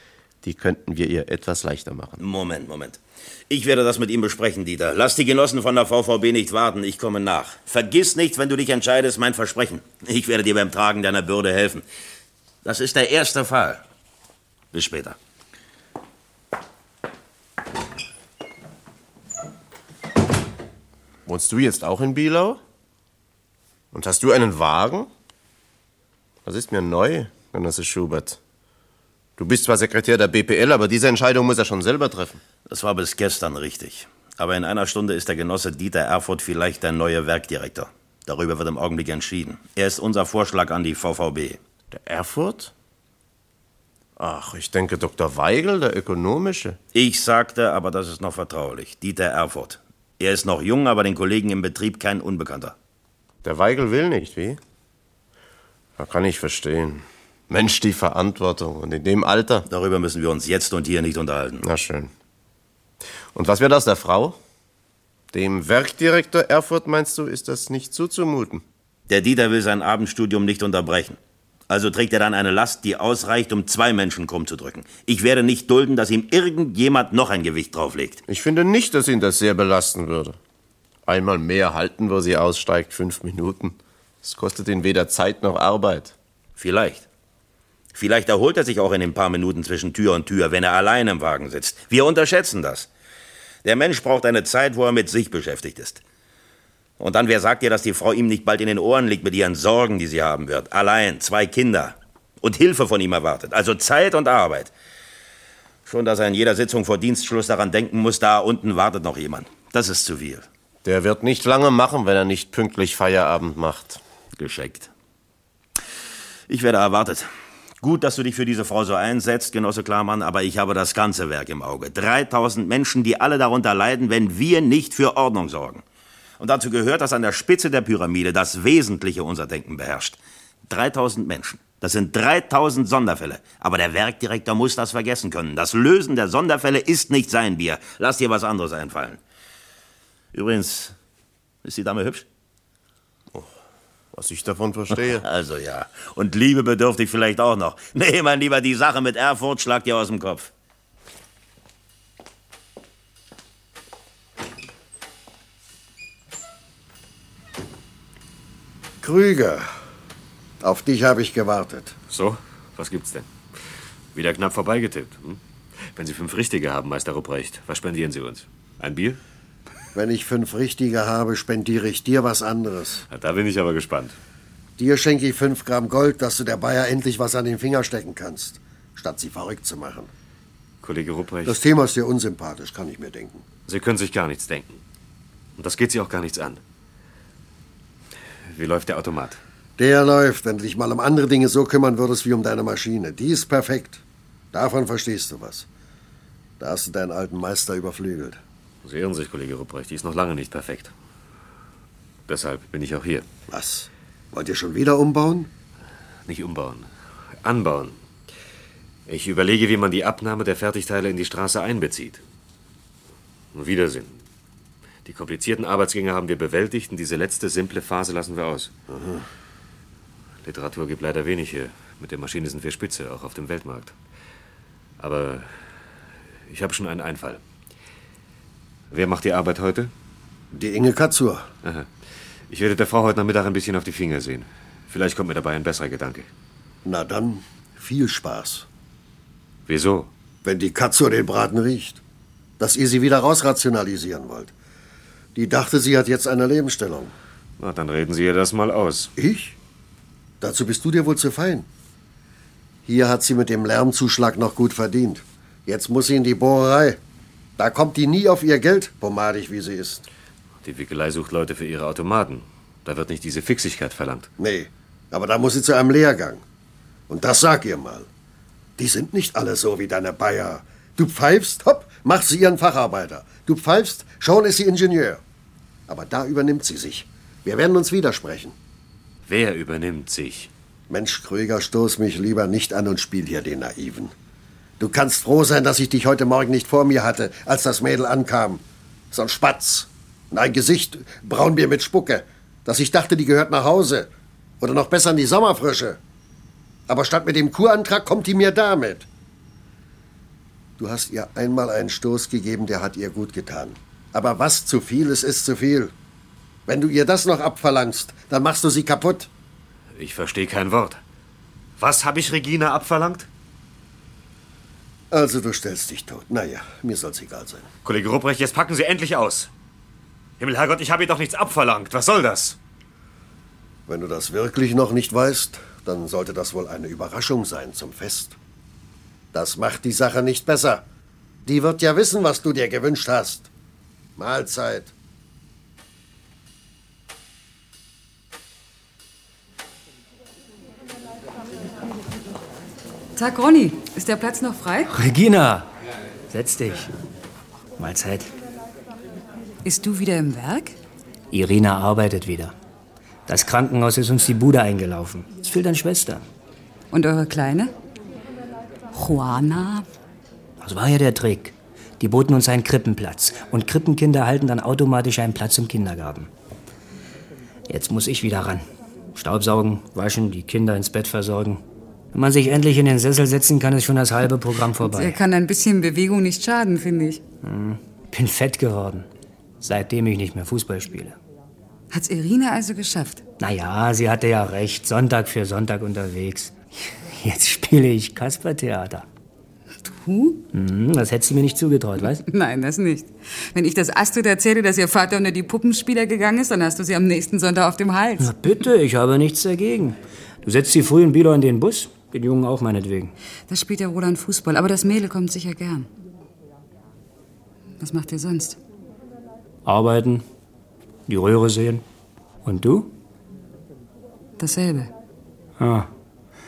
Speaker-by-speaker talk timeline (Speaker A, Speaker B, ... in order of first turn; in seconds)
Speaker A: 0.4-2.2, 21.2-22.6, 23.9-25.1, 26.4-28.4, 29.4-32.4, 41.9-42.7, 44.2-46.8, 53.4-54.6, 56.0-59.7, 61.6-62.1, 63.3-64.4, 65.3-68.6, 78.3-80.4, 81.0-86.1, 110.8-114.0, 144.1-145.2
Speaker B: 2.2-3.0, 3.5-11.8, 12.6-13.8, 14.7-15.2, 32.7-41.6, 46.9-52.7, 59.7-61.6, 69.1-71.2, 71.7-78.2, 86.6-87.0, 87.9-92.9, 93.6-96.0, 97.0-104.7, 105.8-110.5, 114.4-114.9, 116.5-117.3, 117.8-125.8, 126.4-139.2, 140.3-140.9, 141.6-142.2, 144.9-150.5
Speaker C: 159.0-159.7, 160.6-161.9, 169.9-173.0, 174.8-180.1, 181.4-183.4, 189.8-194.0, 194.5-195.7, 196.6-198.4, 203.5-205.5, 218.9-219.2, 230.5-231.5, 236.8-238.6, 240.4-242.0, 242.6-244.5, 245.3-247.1, 249.2-249.6, 250.4-251.7, 252.8-257.0, 257.6-260.0, 264.4-266.4, 267.1-268.1, 268.8-275.2, 275.9-278.5, 280.9-284.1, 284.8-294.1, 294.6-296.0, 296.9-299.1, 300.8-305.9, 306.7-309.3, 315.1-317.7, 323.9-328.4, 329.3-330.8, 331.4-333.5, 334.2-334.9
Speaker D: 162.1-163.3, 164.1-169.2, 173.1-174.2, 180.8-181.6, 183.7-184.8, 185.6-186.6, 188.5-189.4, 198.8-200.9, 202.3-203.2, 206.2-206.9, 207.4-208.0, 209.1-212.2, 213.5-214.2, 215.0-218.7, 220.4-223.9, 225.0-225.6, 226.5-227.4, 228.9-229.9, 231.6-231.9, 232.5-236.3, 239.7-240.1, 247.6-249.1, 260.6-264.3, 279.3-280.5, 310.0-311.0, 311.8-313.3, 317.8-319.5, 320.4-322.6
Speaker E: 343.2-344.9, 349.6-350.8, 356.9-357.7, 358.9-359.9, 374.8-377.2, 381.9-383.2, 389.8-390.4, 392.2-398.3, 403.5-405.9, 407.8-408.6, 414.4-414.9
Speaker F: 344.9-345.7, 346.3-346.9, 347.8-348.3, 351.3-352.5, 353.3-356.2, 360.6-366.3, 367.7-371.6, 372.1-375.2, 377.4-379.1, 379.6-381.1, 383.4-389.0, 390.5-392.2, 398.2-403.1, 409.6-410.2, 411.1-411.8, 412.4-412.9, 415.6-415.9